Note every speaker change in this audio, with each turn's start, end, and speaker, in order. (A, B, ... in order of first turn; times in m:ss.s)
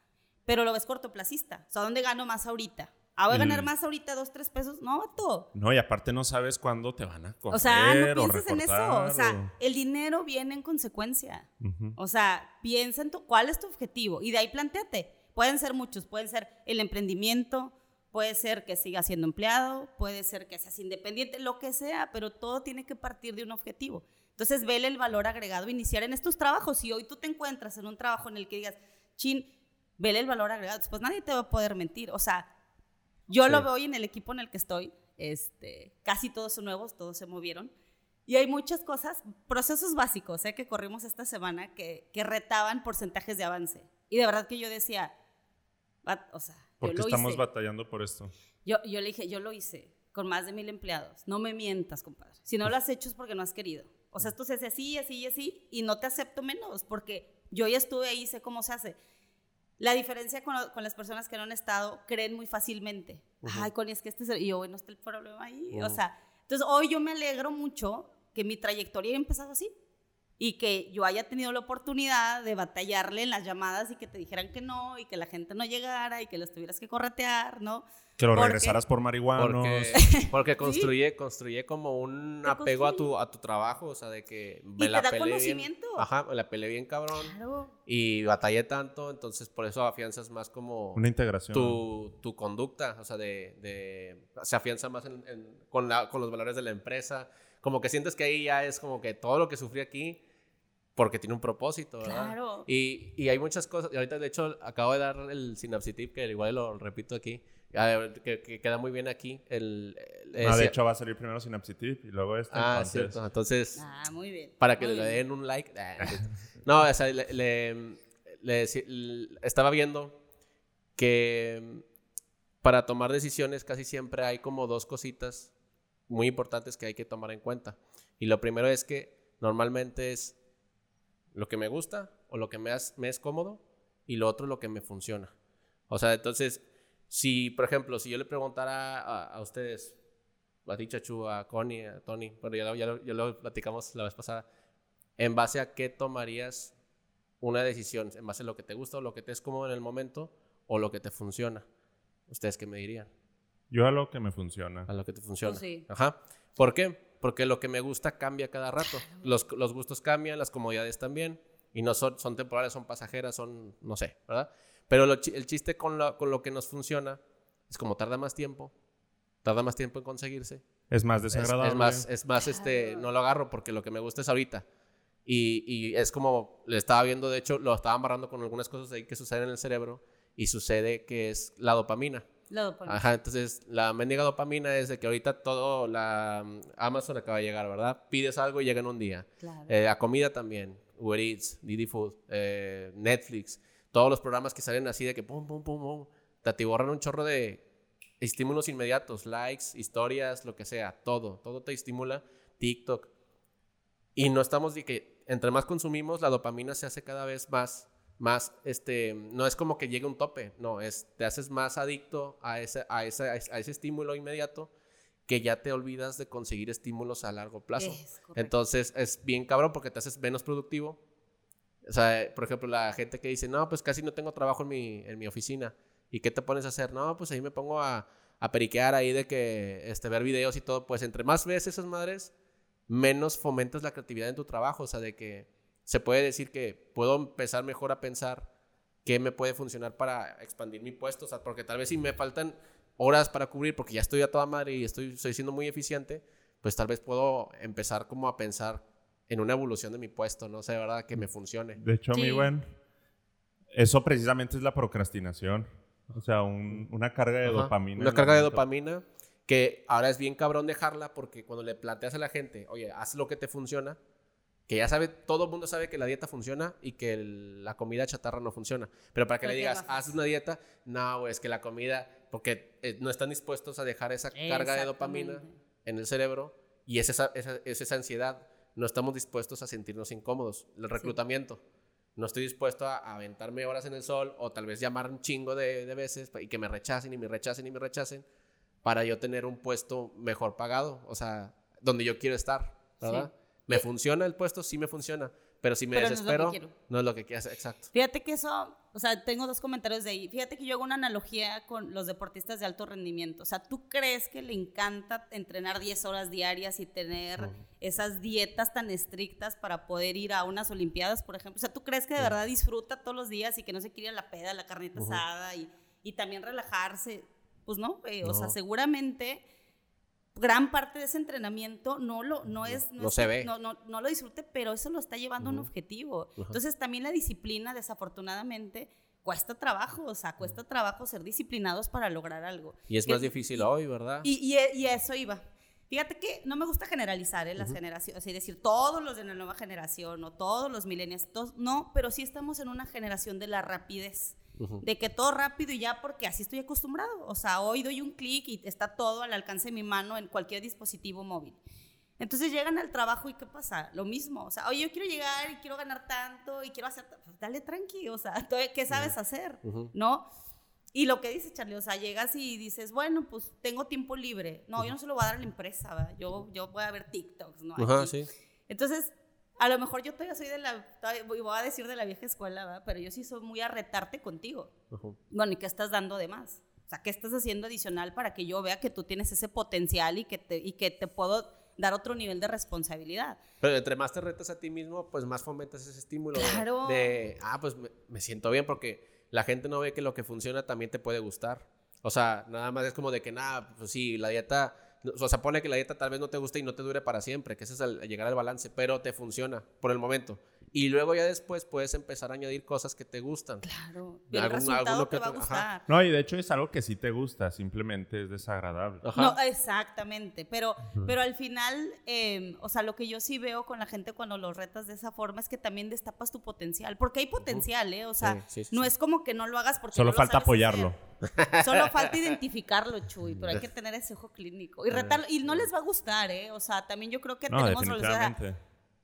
0:00.5-0:05.5 A
0:03.3-0:03.7 B
0:05.5-0:09.5 B
0:07.5-0:32.5 A
0:11.6-0:12.0 B
0:33.3-0:37.7 A
0:38.3-0:45.1 A
0:46.0-0:47.4 A
0:46.8-0:48.3 B
0:48.6-0:59.0 A
0:59.8-1:09.7 A
1:03.4-1:03.7 C
1:05.7-1:06.0 C
1:10.4-1:18.8 A
1:18.2-1:20.0 B
1:19.4-1:27.3 C
1:20.0-1:20.9 A
1:22.4-1:23.1 A
1:24.8-1:26.1 A
1:27.2-1:27.7 A
1:27.9-1:40.2 C
1:31.0-1:31.8 B
1:41.0-1:50.8 C
1:42.0-1:42.7 A
1:50.4-1:53.2 B
1:52.5-1:53.8 C
1:53.8-1:55.2 A
1:54.6-2:00.2 C
2:01.0-2:01.8 C
2:02.6-2:05.5 C
2:06.1-2:10.4 C
2:11.3-2:15.3 C
2:15.9-2:20.0 C
2:20.7-2:24.4 C
2:25.2-2:26.7 C
2:27.4-2:31.6 C
2:32.3-2:33.1 C
2:33.7-2:34.9 B
2:34.9-2:48.7 C
2:35.4-2:35.9 A
2:49.4-2:50.6 C
2:50.9-2:52.1 B
2:51.3-2:54.6 C
2:52.4-2:53.1 A
2:55.3-3:02.3 C
3:02.5-3:03.0 A
3:02.9-3:17.6 C
3:09.4-3:09.7 A
3:18.2-3:23.1 C
3:24.2-3:34.7 C
3:35.3-3:41.0 C
3:37.8-3:38.6 A
3:41.9-3:52.3 C
3:52.9-3:58.5 C
3:59.0-4:11.8 C
4:11.8-4:12.7 B
4:12.1-4:12.5 A
4:13.7-4:18.6 B
4:17.4-4:24.0 C
4:24.7-4:41.6 C
4:29.4-4:30.1 A
4:34.4-4:35.6 A
4:42.2-4:48.2 C
4:48.8-4:57.9 C
4:53.0-4:53.8 A
4:55.9-4:56.7 A
4:57.9-5:19.4 A
5:15.0-5:15.2 C
5:18.2-5:18.6 C
5:20.4-5:33.7 A
5:22.7-5:23.5 C
5:25.4-5:25.7 C
5:32.9-5:34.3 C
5:34.2-5:51.6 A
5:44.6-5:44.8 C
5:52.2-6:00.3 A
5:58.9-5:59.9 C
6:00.9-6:08.1 A
6:07.8-6:08.3 C
6:08.7-6:14.7 A
6:14.9-6:15.2 C
6:15.3-6:23.4 A
6:23.6-6:43.7 C
6:26.4-6:27.2 A
6:43.6-6:45.9 A
6:44.3-6:45.7 C
6:45.9-6:49.1 B
6:49.0-6:49.4 C
6:49.2-7:00.9 A
6:58.2-6:58.9 C
6:59.9-7:01.0 B
7:01.2-7:02.3 C
7:01.6-7:08.4 A
7:03.3-7:03.6 C
7:04.9-7:05.7 C
7:07.5-7:08.6 B